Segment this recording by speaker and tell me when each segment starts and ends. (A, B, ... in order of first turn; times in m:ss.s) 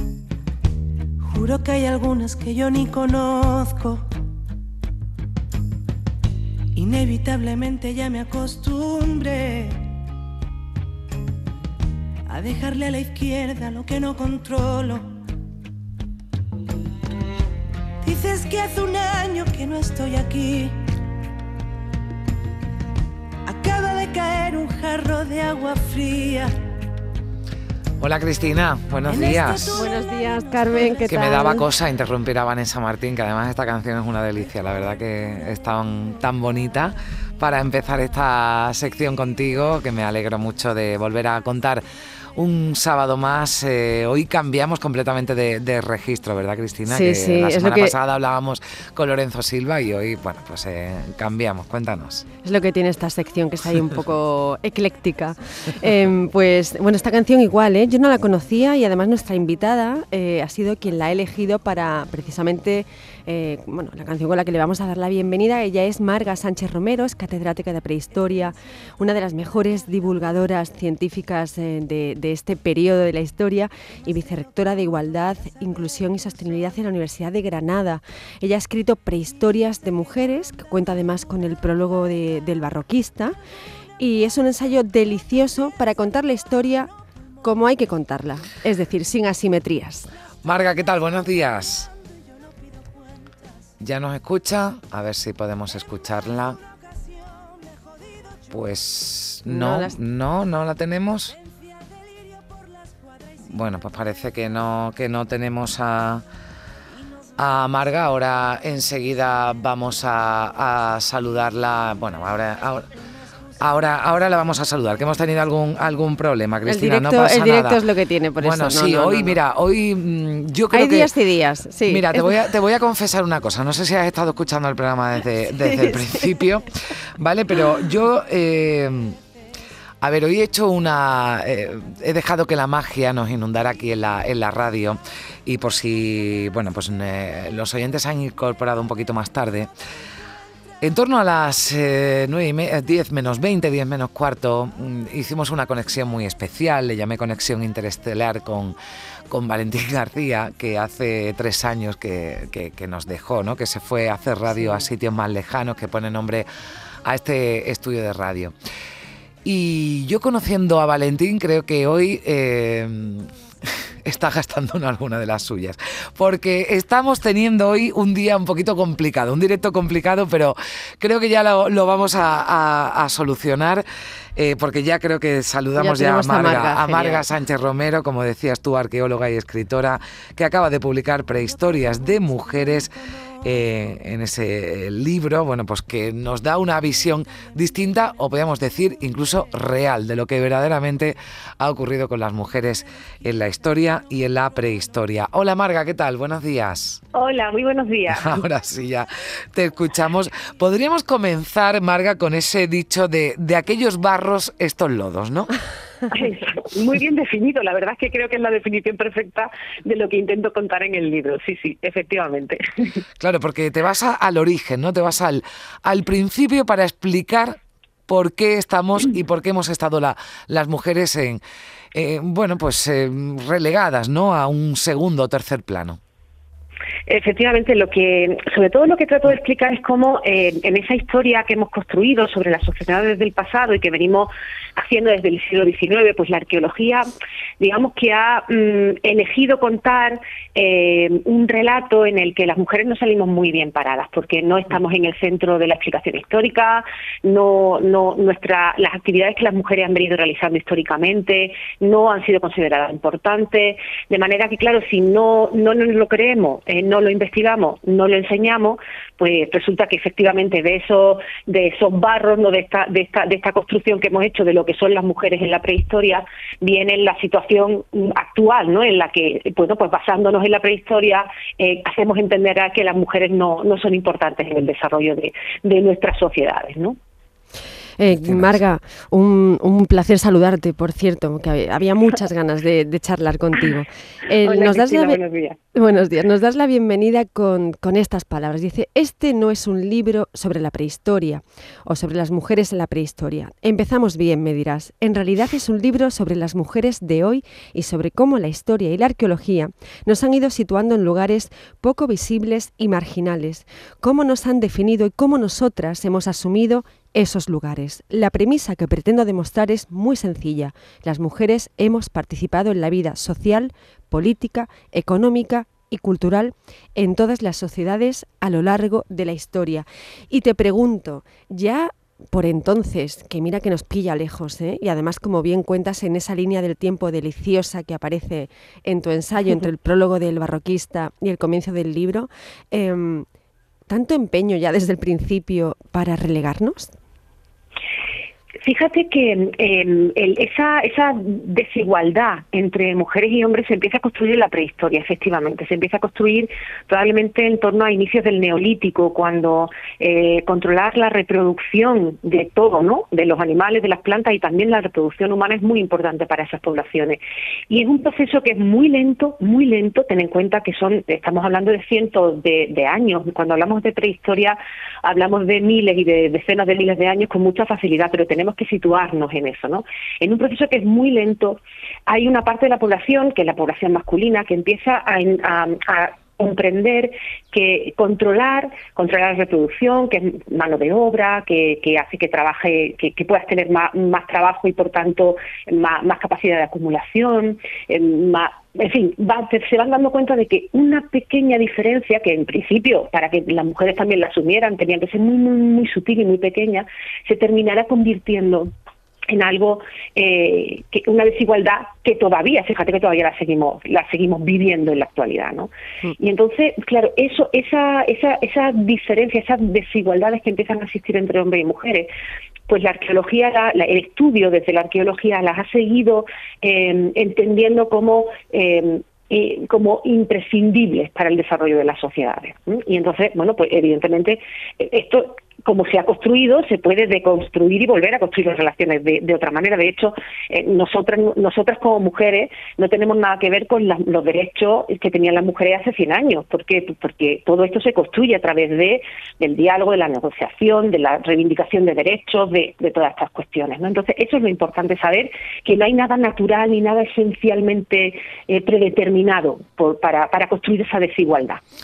0:01.2-0:04.0 A
0:06.8-0:09.8 A
0:12.3-0:15.0 A
0:18.0-0:20.8 A
0:23.4-0:26.5 A
0:28.0-0:29.8 B
0:29.0-0:31.0 A
0:29.7-0:31.6 C
0:31.0-0:41.8 B
0:42.4-0:52.2 B
0:46.8-0:47.9 C
0:52.4-1:23.3 C
1:24.0-1:26.9 C
1:27.4-1:30.1 C
1:30.4-1:31.9 B
1:33.8-1:36.6 B
1:38.5-1:41.4 B
1:39.4-1:40.0 C
1:43.5-1:46.2 B
1:47.4-1:52.9 B
1:53.6-1:57.8 B
1:56.6-1:59.4 C
1:58.4-2:01.1 B
2:00.7-2:02.4 C
2:01.8-2:06.7 B
2:05.5-2:06.3 C
2:07.2-2:09.2 B
2:10.0-2:19.7 B
2:20.8-2:28.8 B
2:29.3-2:36.5 B
2:34.6-2:34.9 C
2:37.0-2:38.5 B
2:39.4-2:53.8 B
2:54.4-3:17.0 B
2:55.8-2:57.3 C
3:17.1-3:18.4 D
3:18.1-3:25.5 B
3:26.1-3:33.0 D
3:33.2-3:41.4 B
3:41.9-3:46.0 B
3:47.1-4:37.0 D
4:38.0-4:45.2 C
4:44.4-4:45.6 D
4:45.7-5:33.2 C
5:33.9-5:36.9 C
5:38.6-6:38.7 D
6:39.3-6:52.1 D
6:52.7-7:31.6 D